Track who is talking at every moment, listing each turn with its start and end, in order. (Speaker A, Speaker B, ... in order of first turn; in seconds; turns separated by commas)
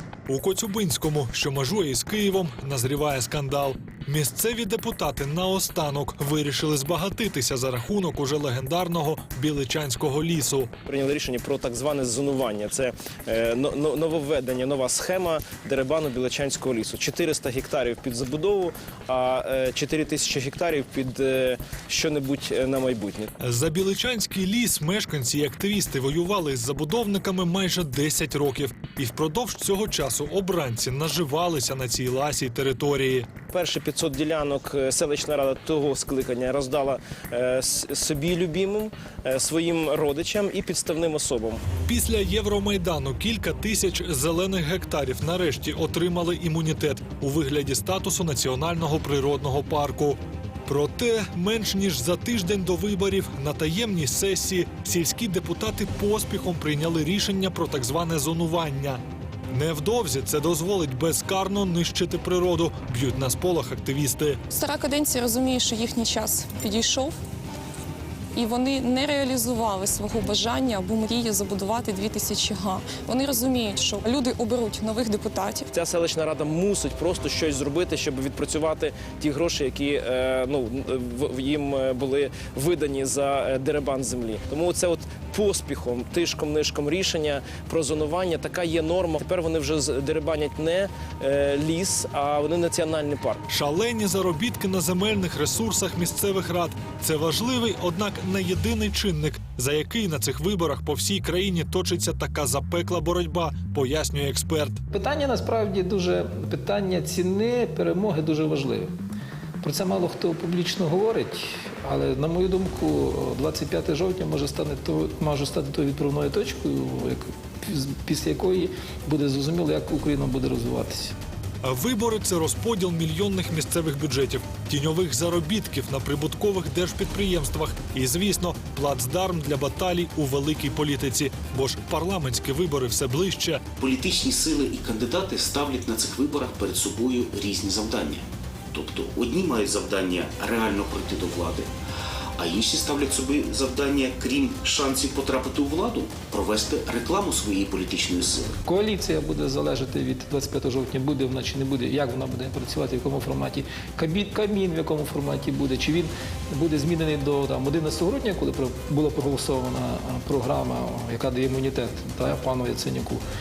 Speaker A: 0.3-10.7, Speaker B: 10.9-23.3, Speaker A: 23.4-33.3, Speaker B: 33.5-41.6, Speaker A: 41.9-64.4, Speaker C: 64.5-67.1, Speaker C: 68.3-75.7, Speaker B: 75.7-93.4, Speaker A: 93.5-104.8, Speaker D: 104.9-108.9, Speaker D: 109.6-121.2, Speaker A: 121.6-133.6, Speaker E: 133.8-141.7, Speaker E: 142.4-148.6, Speaker D: 148.7-163.2